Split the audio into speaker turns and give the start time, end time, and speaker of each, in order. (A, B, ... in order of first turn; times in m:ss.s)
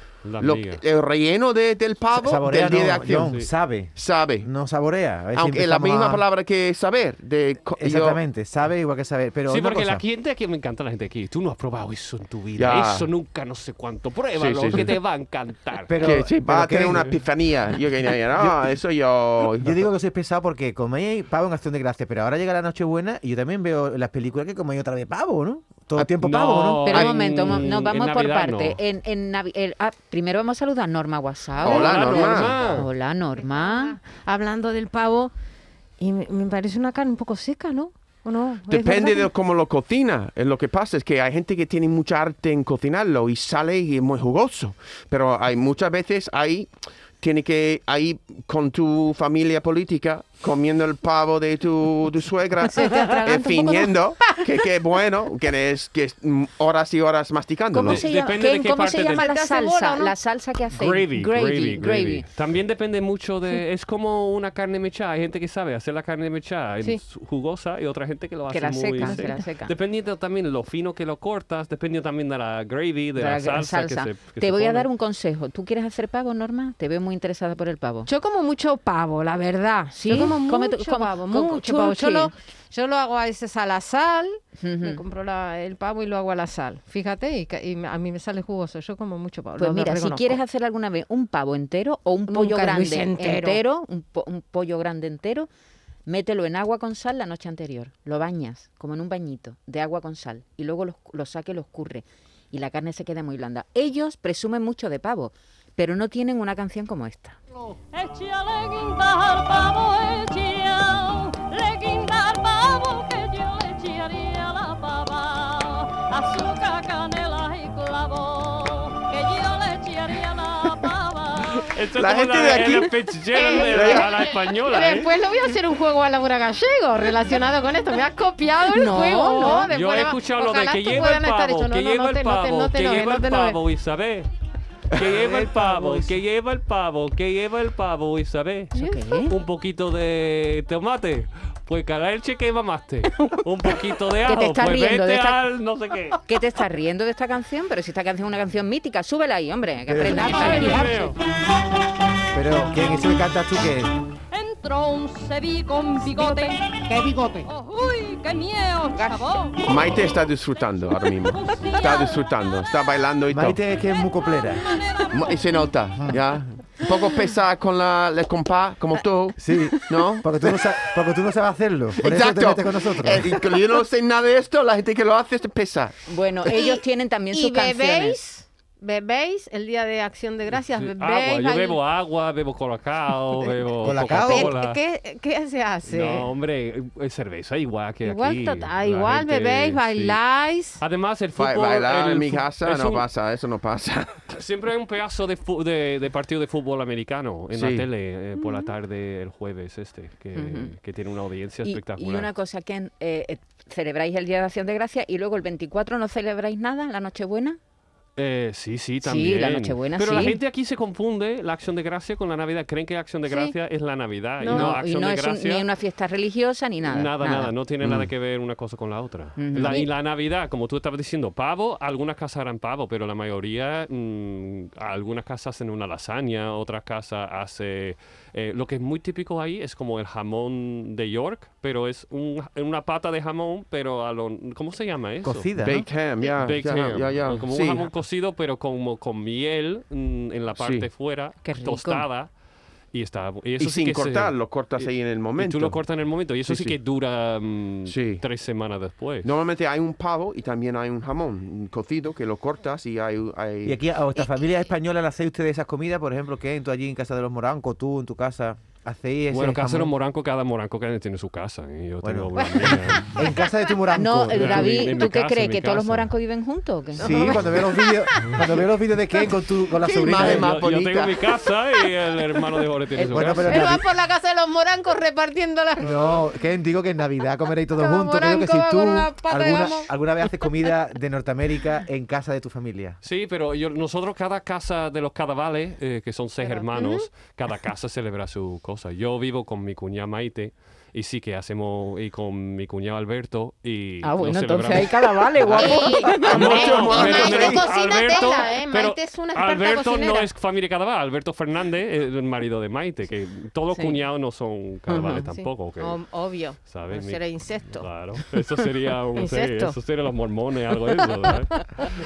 0:00.2-0:00.8 A
0:00.4-0:03.4 B
0:02.1-0:06.2 C
0:03.9-0:04.5 B
0:05.3-0:08.2 B
0:07.8-0:10.0 C
0:09.5-0:16.0 A
0:12.6-0:13.1 B
0:14.4-0:14.9 B
0:15.8-0:17.2 C
0:16.0-0:19.8 B
0:18.4-0:18.7 C
0:19.6-0:27.1 C
0:26.2-0:28.8 A
0:26.8-0:34.0 D
0:31.6-0:32.7 B
0:31.6-0:32.8 E
0:31.6-0:32.9 A
0:33.3-0:35.3 E
0:36.0-0:39.3 E
0:38.7-0:58.0 B
0:52.7-0:53.9 D
0:52.9-0:53.2 E
0:57.7-1:02.2 D
0:57.8-0:59.2 A
0:58.9-1:00.1 E
1:00.7-1:14.9 A
1:08.5-1:09.7 D
1:09.0-1:09.4 E
1:13.2-1:18.1 D
1:18.1-1:30.4 E
1:19.9-1:22.3 D
1:24.6-1:25.0 D
1:29.6-1:35.5 D
1:32.3-1:33.6 E
1:36.0-1:47.4 D
1:47.9-2:01.6 F
2:01.6-2:05.1 A
2:01.9-2:02.9 B
2:03.3-2:13.6 E
2:03.6-2:04.1 B
2:08.7-2:09.7 D
2:09.7-2:14.3 A
2:14.9-2:26.2 A
2:15.0-2:16.2 C
2:18.7-2:19.3 D
2:24.2-2:25.4 D
2:26.3-2:30.9 D
2:29.9-2:30.8 C
2:30.4-2:31.1 A
2:30.4-2:31.1 F
2:32.3-2:33.9 C
2:34.3-2:39.9 F
2:39.6-2:43.6 B
2:41.1-2:42.5 F
2:43.3-2:44.6 C
2:44.0-2:45.7 F
2:45.1-2:50.5 B
2:49.4-2:53.4 C
2:52.0-2:56.0 B
2:56.1-2:58.2 D
2:56.5-3:01.8 E
3:00.6-3:04.8 A
3:03.4-3:06.3 E
3:03.8-3:04.5 C
3:05.8-3:10.2 A
3:08.0-3:10.8 E
3:10.8-3:13.0 A
3:11.4-3:14.3 B
3:14.3-3:22.3 A
3:17.5-3:17.8 B
3:18.4-3:18.7 E
3:20.3-3:20.7 D
3:21.6-3:27.6 D
3:28.2-3:35.6 A
3:29.0-3:30.4 D
3:33.3-3:33.5 E
3:34.4-3:34.8 E
3:34.4-3:37.5 D
3:36.8-3:55.5 A
3:39.4-3:39.8 D
3:55.2-3:55.9 C
3:55.6-3:57.9 B
3:56.4-4:02.3 A
4:00.6-4:00.9 B
4:01.4-4:02.0 D
4:02.9-4:09.3 A
4:03.6-4:05.8 B
4:06.4-4:06.8 B
4:07.8-4:08.2 B
4:09.2-4:13.8 B
4:13.6-4:19.9 C
4:19.3-4:23.1 A
4:22.0-4:24.8 C
4:23.9-4:27.4 D
4:24.3-4:26.1 A
4:27.0-4:30.5 C
4:27.0-4:28.4 E
4:29.8-4:31.3 B
4:30.1-4:33.7 A
4:33.1-4:33.8 C
4:33.4-4:36.2 E
4:35.8-4:43.0 C
4:37.7-4:39.9 E
4:43.0-5:06.0 A
4:46.4-4:47.1 E
4:54.0-4:56.6 D
4:55.6-5:00.3 E
4:56.2-4:57.7 B
5:04.9-5:05.2 D
5:05.1-5:07.9 E
5:06.6-5:11.5 A
5:09.2-5:09.8 E